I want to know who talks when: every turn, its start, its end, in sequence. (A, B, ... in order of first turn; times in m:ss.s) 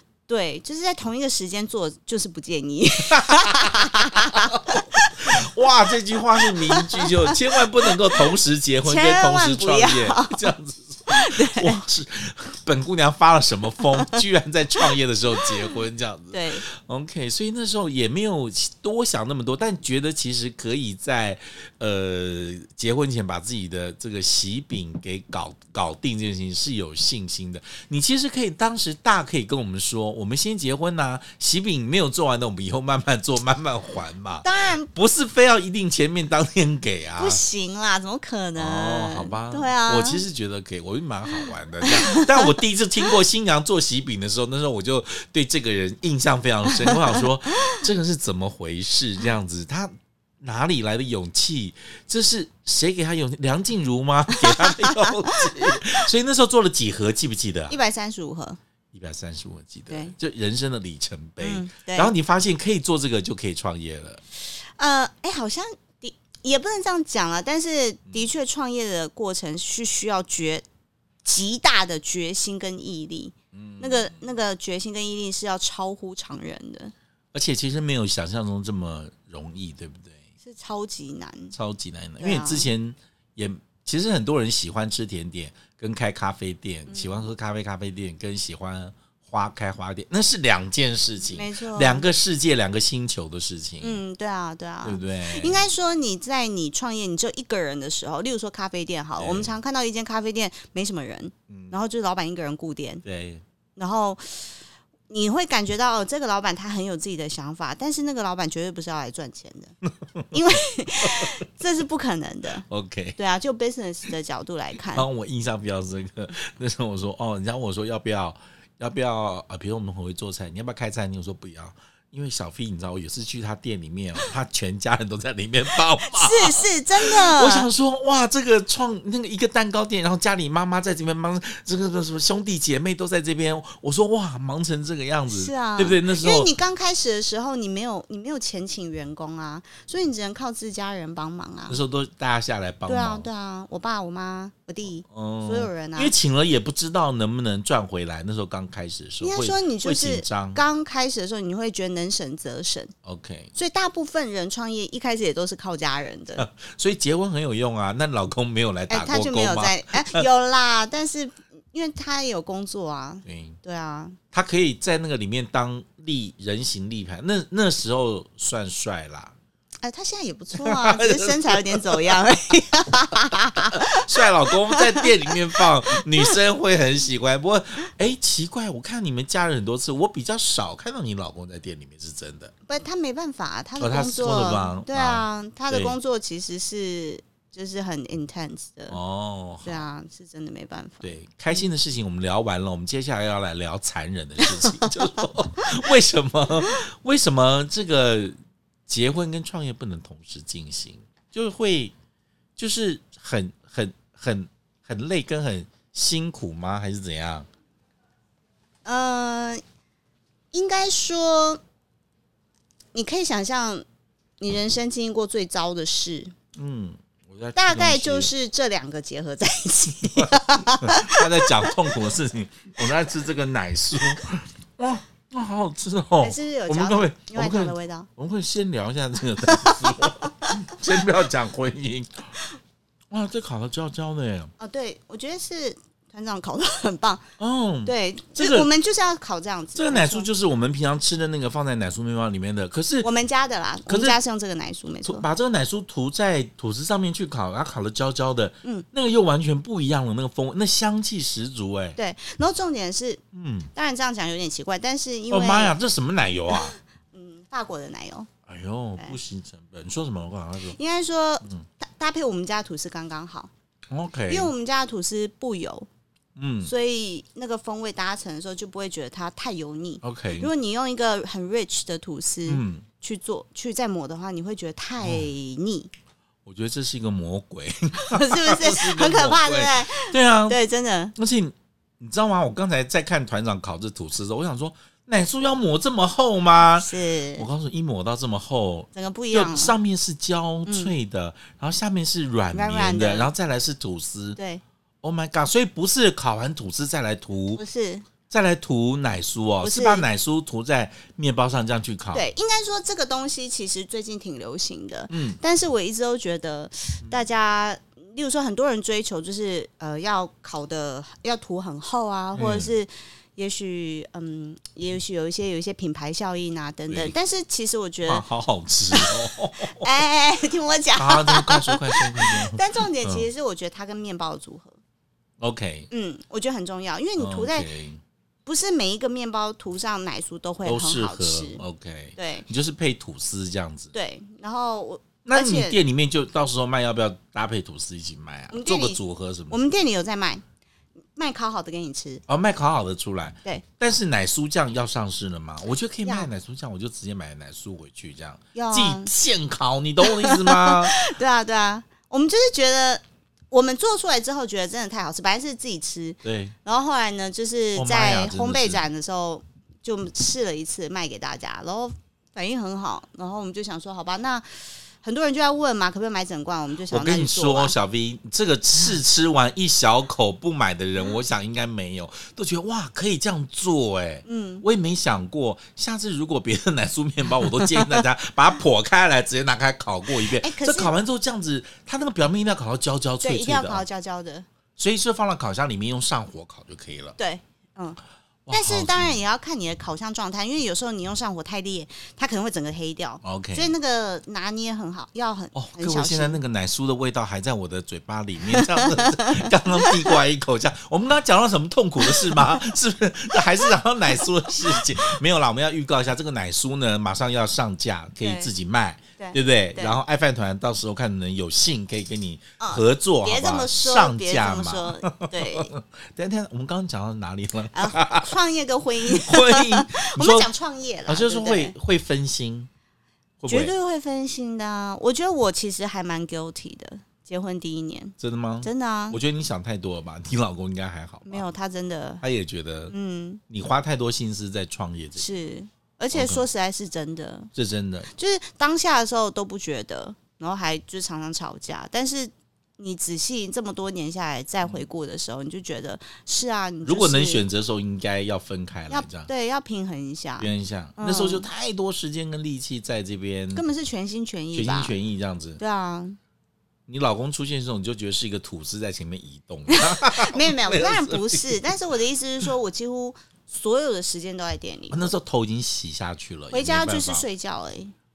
0:00.3-0:05.4 A
0:03.1-0:37.4 B
0:06.4-0:07.9 A
0:08.8-0:10.5 A
0:11.1-0:11.8 A
0:16.3-0:16.7 A
0:34.4-0:34.9 A
0:37.2-0:40.2 A
0:38.6-0:57.8 B
0:41.8-0:42.5 A
0:54.3-0:55.7 A
0:57.7-0:58.6 A
0:58.9-1:04.2 B
1:01.4-1:02.1 A
1:04.8-1:10.6 A
1:11.2-1:16.9 A
1:13.5-1:14.2 B
1:17.3-1:20.2 B
1:20.4-1:21.5 A
1:21.5-1:34.0 B
1:22.2-1:22.7 A
1:26.9-1:27.3 A
1:31.3-1:32.1 A
1:33.8-1:43.0 A
1:34.8-1:35.6 B
1:39.2-1:39.5 B
1:41.5-1:41.7 B
1:43.0-1:43.4 B
1:43.8-1:44.5 A
1:45.1-1:49.7 A
1:50.3-1:55.1 A
1:52.7-1:53.2 B
1:54.9-2:16.5 B
2:06.0-2:07.7 A
2:15.3-2:21.8 A
2:21.7-2:23.3 B
2:22.9-2:26.1 A
2:25.0-2:30.6 B
2:29.2-2:32.9 A
2:33.0-2:33.5 B
2:33.5-2:36.4 A
2:36.4-2:40.2 B
2:38.9-2:44.2 A
2:43.2-2:43.6 B
2:44.3-2:49.3 B
2:49.8-2:56.3 A
2:50.6-2:52.2 B
2:53.7-3:02.5 B
3:02.7-3:09.0 A
3:03.8-3:05.9 B
3:08.9-3:09.8 B
3:09.6-3:11.6 A
3:11.0-3:18.4 B
3:14.5-3:14.8 A
3:18.9-3:21.9 B
3:22.6-3:27.5 B
3:28.8-3:29.6 A
3:30.5-3:31.6 A
3:32.9-3:33.8 A
3:34.4-3:36.3 A
3:36.6-3:38.3 B
3:37.5-3:41.7 A
3:40.2-3:52.3 B
3:46.2-3:48.1 A
3:49.5-3:50.6 A
3:53.1-3:54.5 B
3:54.6-3:57.2 A
3:57.4-3:58.7 B
3:57.8-4:00.3 A
3:59.8-4:03.1 B
4:03.0-4:05.2 A
4:03.9-4:04.2 B
4:05.0-4:12.0 B
4:12.0-4:13.2 A
4:13.3-4:13.7 B
4:13.7-4:15.8 A
4:15.3-4:16.8 B
4:16.5-4:18.3 A
4:18.5-4:20.8 B
4:20.7-4:23.5 A
4:23.9-4:24.5 B
4:24.3-4:25.9 A
4:26.4-4:26.7 B
4:26.6-4:35.9 A
4:30.0-4:30.5 B
4:32.4-4:32.8 B
4:35.0-4:35.3 B
4:36.4-4:40.6 B
4:38.0-4:41.1 A
4:41.2-4:54.4 B
4:46.8-4:47.5 A
4:48.9-4:49.7 A
4:50.6-4:50.9 A
4:52.5-4:53.3 A
4:54.4-4:54.6 A
4:55.0-4:57.6 B
4:57.5-4:58.0 A
4:58.3-5:02.3 B
4:59.6-5:00.0 A
5:02.1-5:18.2 A
5:05.1-5:05.4 B
5:12.4-5:12.7 B
5:16.9-5:17.1 B
5:18.0-5:19.9 B
5:19.6-5:24.8 A
5:21.0-5:23.3 B
5:25.4-5:25.9 B
5:25.9-5:27.7 A
5:27.2-5:28.0 B
5:28.4-5:31.6 A
5:30.6-5:33.9 B
5:32.2-5:32.4 A
5:33.9-5:35.8 A
5:35.2-5:39.6 B
5:38.5-5:40.4 A
5:41.1-5:42.2 A
5:42.3-5:51.0 B
5:48.5-5:49.1 A
5:50.0-6:07.7 A
5:56.2-5:56.5 B
5:57.7-5:58.8 B
6:06.9-6:23.8 B
6:14.2-6:14.6 A
6:20.2-6:20.9 A
6:23.2-6:24.4 A
6:24.8-6:27.2 B
6:27.2-6:28.0 A
6:28.4-6:29.2 B
6:28.5-6:36.4 A
6:33.2-6:33.7 B
6:35.5-6:58.3 B
6:38.5-6:40.1 A
6:48.2-6:48.5 A
6:49.2-6:50.0 A
6:52.6-6:55.7 A
6:57.7-7:01.7 A
6:59.1-7:00.5 B
7:01.1-7:02.7 B
7:03.4-7:03.7 B
7:03.5-7:09.2 A
7:08.2-7:11.4 B
7:11.2-7:12.2 A
7:12.2-7:12.9 B
7:12.9-7:13.4 A
7:13.5-7:15.2 B
7:15.2-7:17.5 A
7:16.1-7:16.4 B
7:17.5-7:18.1 B
7:18.1-7:27.4 A
7:26.8-7:29.3 B
7:28.9-7:31.5 A
7:30.4-7:33.6 B
7:33.5-7:34.9 A
7:34.5-7:35.6 B
7:35.6-7:36.2 A
7:36.9-7:41.8 B
7:39.7-7:45.1 A
7:44.9-7:47.2 B
7:46.5-7:47.9 A